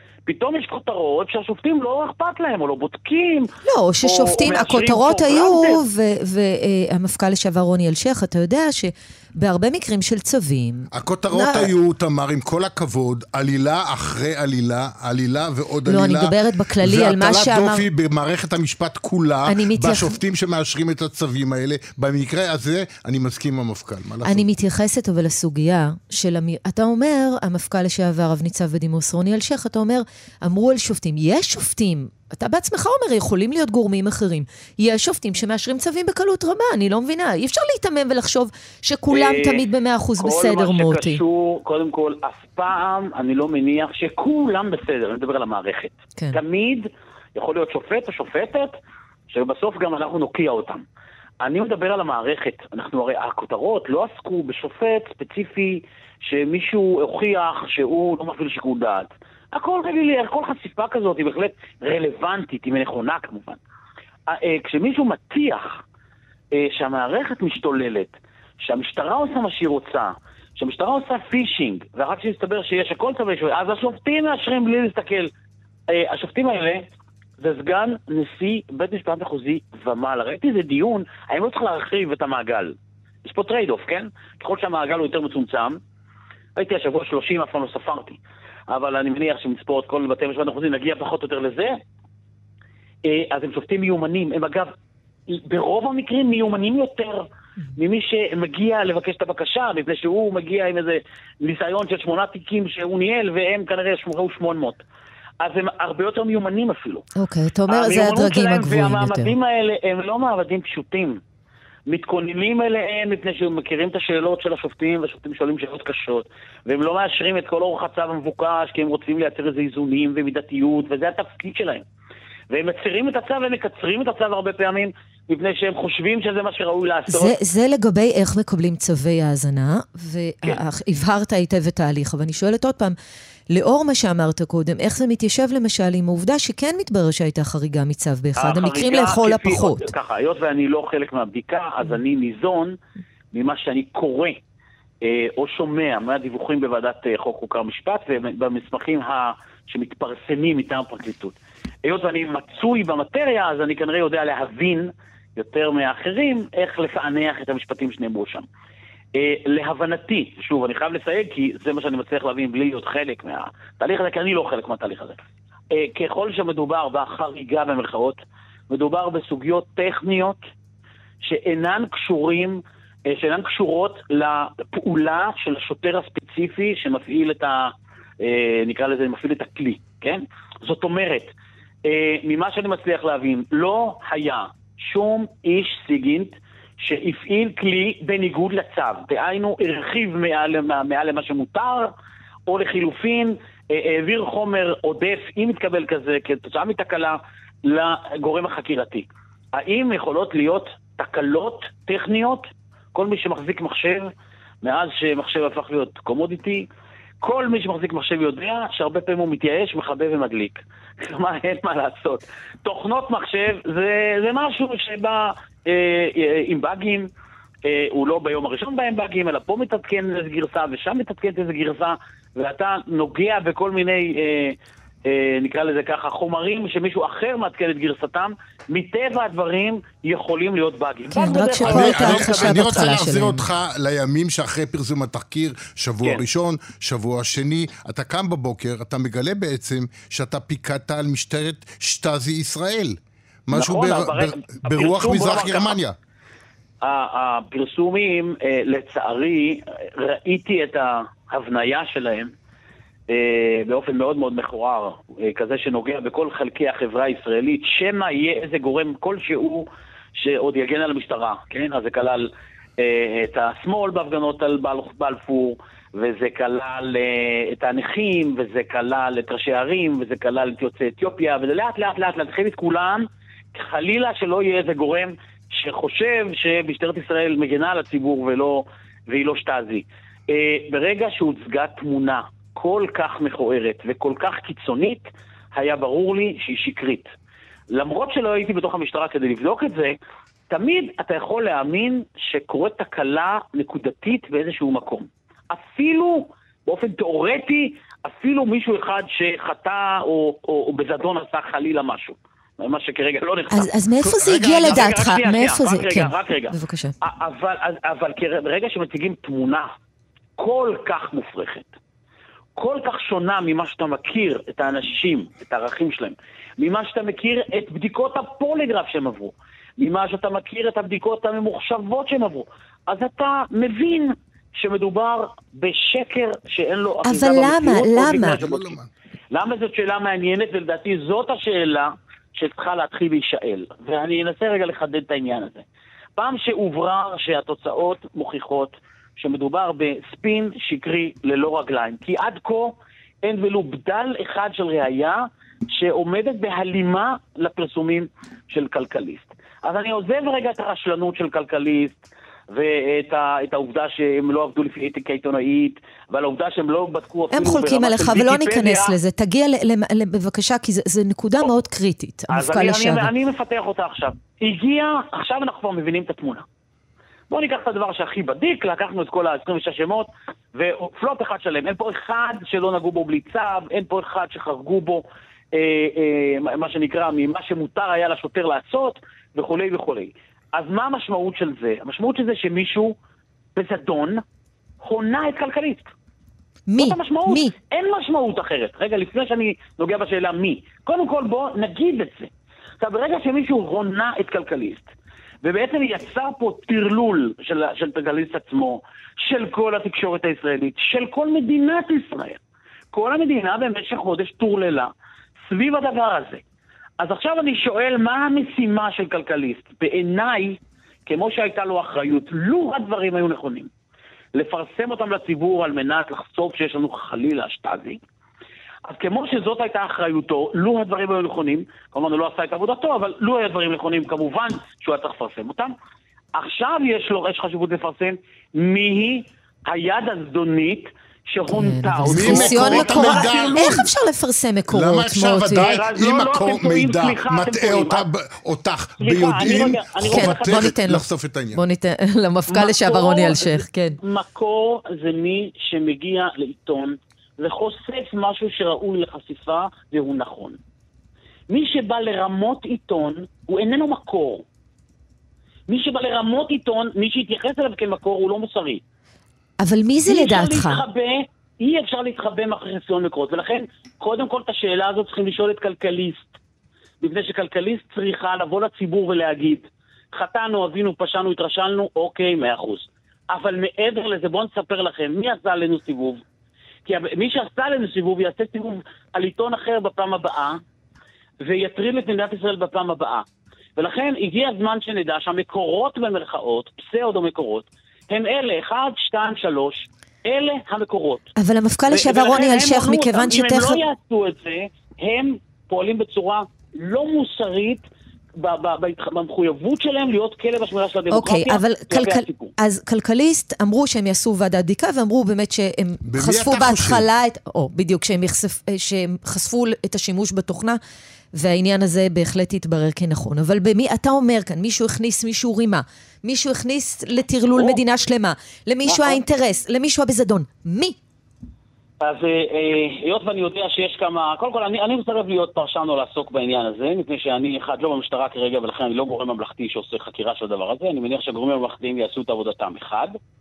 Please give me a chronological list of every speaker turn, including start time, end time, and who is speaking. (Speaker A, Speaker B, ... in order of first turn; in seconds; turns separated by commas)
Speaker A: 0.2-3.5, Speaker B: 3.6-11.7, Speaker A: 4.0-5.8, Speaker C: 10.9-24.5, Speaker B: 15.9-17.9, Speaker B: 19.5-20.1, Speaker B: 24.2-41.2, Speaker A: 39.1-39.6, Speaker A: 40.2-48.7, Speaker A: 49.3-50.8, Speaker A: 51.4-63.6, Speaker A: 64.3-65.8, Speaker A: 66.5-75.3, Speaker A: 75.9-76.9, Speaker A: 77.4-85.8, Speaker A: 86.6-91.8, Speaker A: 93.0-94.7, Speaker A: 95.3-104.8, Speaker A: 105.4-107.1, Speaker B: 107.2-109.3, Speaker A: 107.7-111.2, Speaker A: 111.9-121.8, Speaker A: 122.5-127.3, Speaker B: 127.1-132.9, Speaker B: 133.5-139.9, Speaker A: 138.4-142.8, Speaker A: 143.3-144.4, Speaker A: 145.0-158.4, Speaker A: 159.1-165.2, Speaker A: 165.7-170.4, Speaker A: 171.2-181.3, Speaker A: 181.9-191.9, Speaker A: 192.5-204.1, Speaker A: 204.6-206.7, Speaker A: 207.2-217.1, Speaker A: 217.6-232.8, Speaker B: 231.1-233.4, Speaker C: 231.6-245.9, Speaker A: 243.5-245.8, Speaker A: 246.8-252.3, Speaker A: 253.1-287.1, Speaker A: 287.7-290.0, Speaker A: 290.5-303.7, Speaker B: 303.5-306.9, Speaker C: 304.0-305.0, Speaker A: 304.4-309.7, Speaker A: 310.4-311.7, Speaker A: 312.6-328.8, Speaker B: 327.1-328.4, Speaker C: 328.2-328.9, Speaker A: 329.3-335.6, Speaker A: 336.2-358.9, Speaker B: 357.3-363.1, Speaker A: 362.3-366.4, Speaker A: 367.3-382.9, Speaker A: 383.6-384.2, Speaker A: 384.8-385.9, Speaker B: 386.7-387.5, Speaker A: 386.8-394.9, Speaker A: 395.4-402.4, Speaker A: 402.9-404.9, Speaker A: 405.5-406.4, Speaker A: 407.0-413.7, Speaker A: 414.4-418.0, Speaker A: 418.9-425.7, Speaker A: 426.4-433.9, Speaker B: 431.5-435.8, Speaker C: 432.1-433.9, Speaker C: 434.7-441.6, Speaker A: 435.6-438.1, Speaker A: 439.0-440.7, Speaker B: 440.1-444.0, Speaker A: 442.5-450.6, Speaker A: 451.5-454.4, Speaker A: 455.7-458.8, Speaker B: 459.6-460.8, Speaker A: 460.1-466.4, Speaker A: 467.0-476.2, Speaker A: 476.9-480.6, Speaker A: 481.4-483.2, Speaker A: 483.8-491.3, Speaker B: 491.4-493.8, Speaker A: 491.9-502.5, Speaker B: 501.1-510.8, Speaker C: 506.1-507.1, Speaker B: 511.3-521.0, Speaker A: 518.9-519.2, Speaker A: 522.0-533.1